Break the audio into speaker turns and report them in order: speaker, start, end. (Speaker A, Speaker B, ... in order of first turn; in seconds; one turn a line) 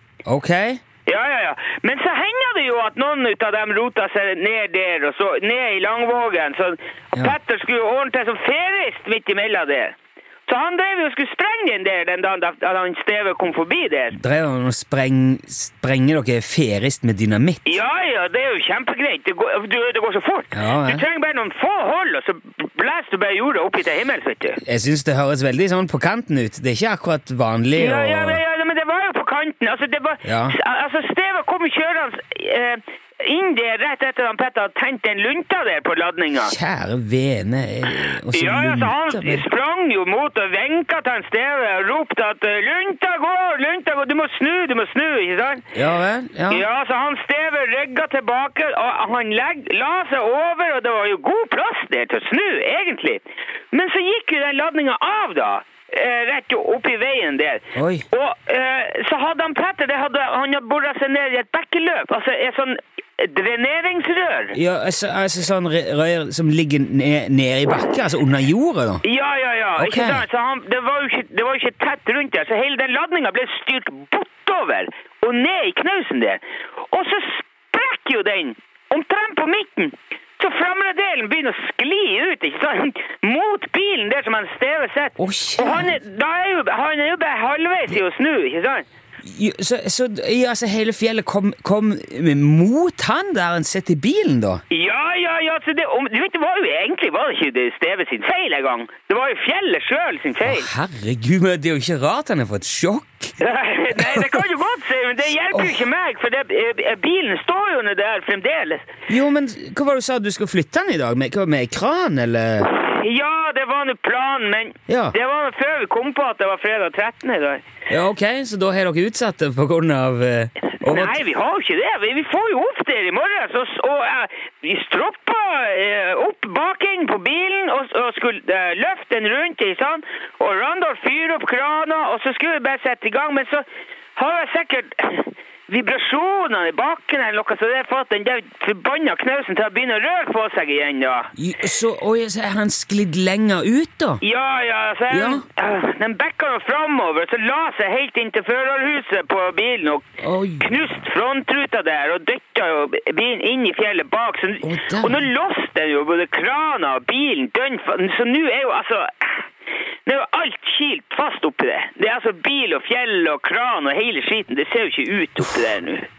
Speaker A: 0.3-0.8
Speaker B: 1.1-14.2
Speaker A: 14.1-17.8
Speaker B: 17.6-24.6
Speaker A: 20.5-21.0
Speaker A: 24.6-28.4
Speaker B: 27.8-36.6
Speaker A: 30.2-30.6
Speaker A: 36.4-39.5
Speaker B: 38.0-45.7
Speaker A: 45.7-46.6
Speaker B: 46.5-64.6
Speaker A: 57.8-58.0
Speaker A: 64.5-69.0
Speaker B: 69.0-88.9
Speaker A: 69.8-70.3
Speaker A: 85.2-86.0
Speaker A: 89.2-94.6
Speaker B: 94.7-100.7
Speaker A: 100.4-103.4
Speaker B: 103.4-108.9
Speaker A: 104.0-104.4
Speaker A: 105.5-105.8
Speaker A: 109.1-112.7
Speaker B: 112.6-117.6
Speaker A: 114.9-115.2
Speaker A: 117.9-121.2
Speaker B: 120.8-133.6
Speaker B: 134.2-141.3
Speaker A: 141.4-144.2
Speaker B: 144.2-150.1
Speaker A: 145.1-145.5
Speaker A: 150.2-150.8
Speaker B: 150.6-159.5
Speaker A: 154.6-155.3
Speaker B: 160.1-166.1